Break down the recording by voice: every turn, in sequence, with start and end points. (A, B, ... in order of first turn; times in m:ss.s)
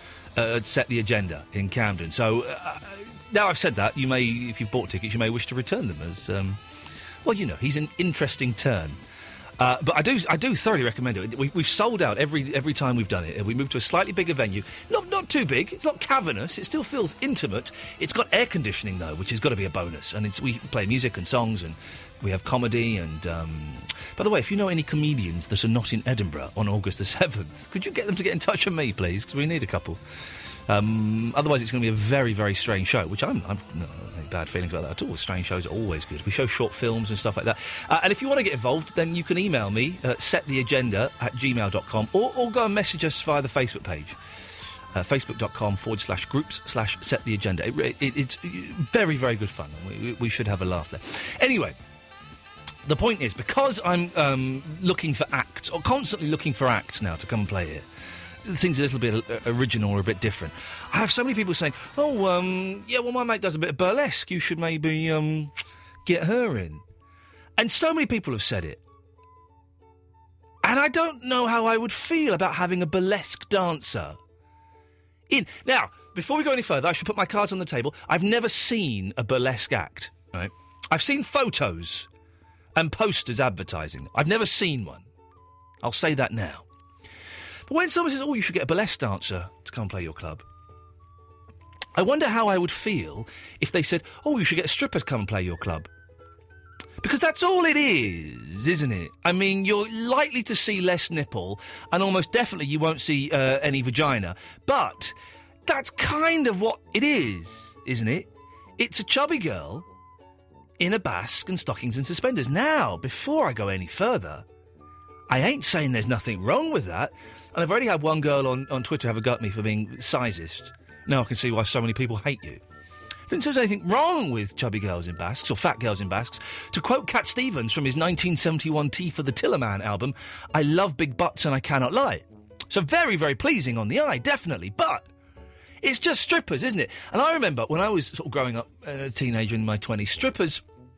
0:00.4-0:06.6 A
0:07.2-0:09.0 A
0:09.6-0:44.2 A
0:44.9-0:51.8 A
0:52.8-0:57.8 A
0:58.4-1:05.5 A
1:06.0-1:06.8 A
1:07.6-1:08.8 A
1:10.6-1:14.2 A
1:15.3-1:22.1 A
1:22.7-1:25.0 A
1:25.8-1:26.6 A
1:27.7-1:30.4 A
1:32.0-1:35.9 A
1:37.0-1:49.8 A
1:50.8-1:54.4 A
1:55.3-2:02.6 A
2:03.3-2:15.1 A
2:15.8-2:20.6 A